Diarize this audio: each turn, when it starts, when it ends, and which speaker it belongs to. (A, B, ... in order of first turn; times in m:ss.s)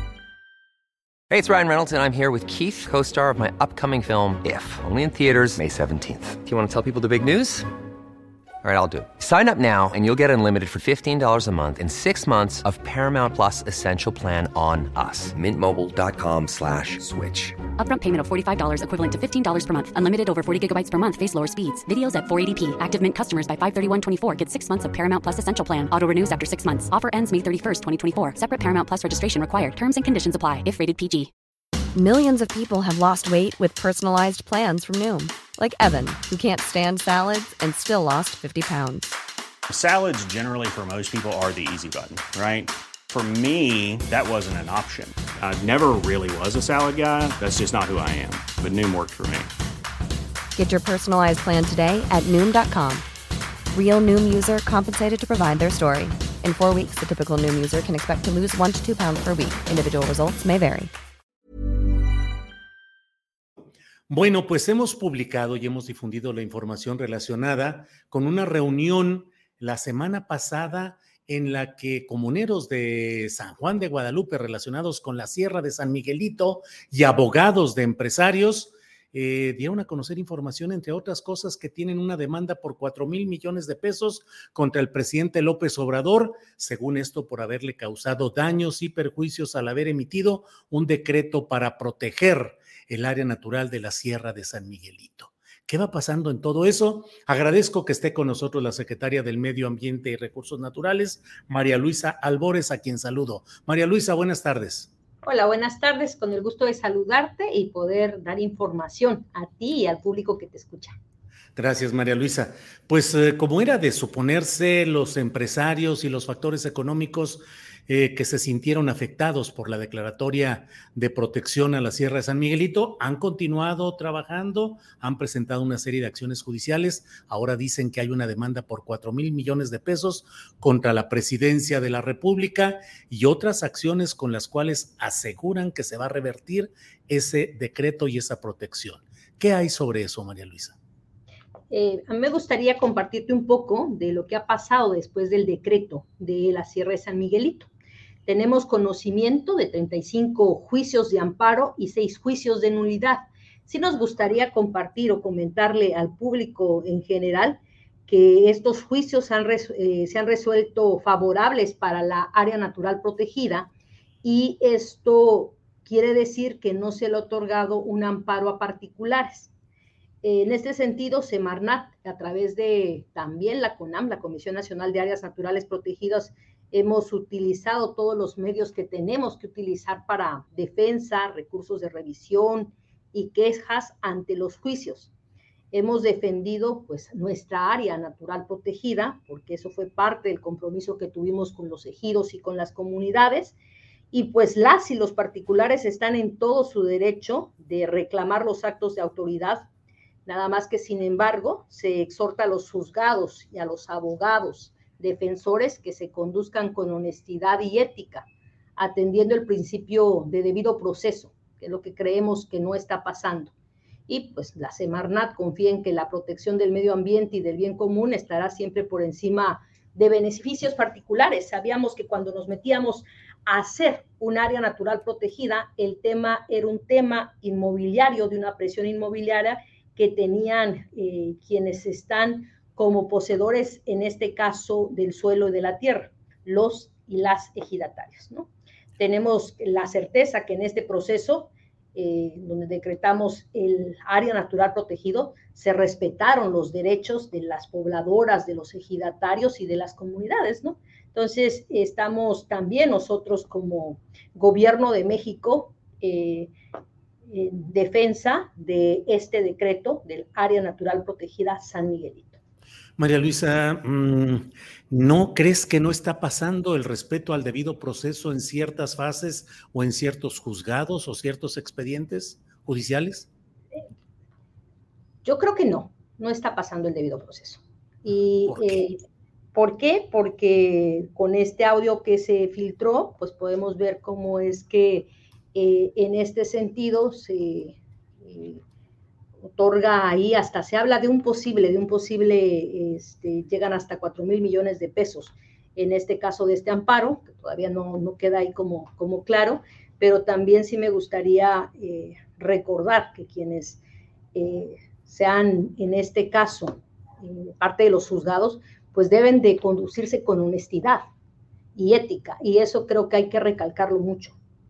0:01.3-0:07.7 A
0:08.6-0:17.5 A
0:17.7-0:31.3 B
0:32.0-0:39.1 C
0:39.7-0:49.5 D
0:50.6-0:53.0 C
0:53.7-1:00.9 C
1:04.1-1:44.9 E
1:45.2-1:51.0 F
1:51.6-2:20.8 E
2:21.7-2:27.7 F
2:28.3-2:43.7 F
2:44.2-2:49.5 F
2:50.2-3:05.1 F
3:05.7-3:13.6 F
3:14.1-3:19.7 F
3:20.3-3:33.5 F
3:34.1-4:16.5 F
4:17.3-4:22.4 F
4:23.0-4:33.3 E
4:35.2-4:39.0 F
4:38.5-4:38.8 E
4:39.5-4:48.6 F
4:49.5-5:03.8 F
5:04.3-5:11.0 F
5:11.8-5:14.4 F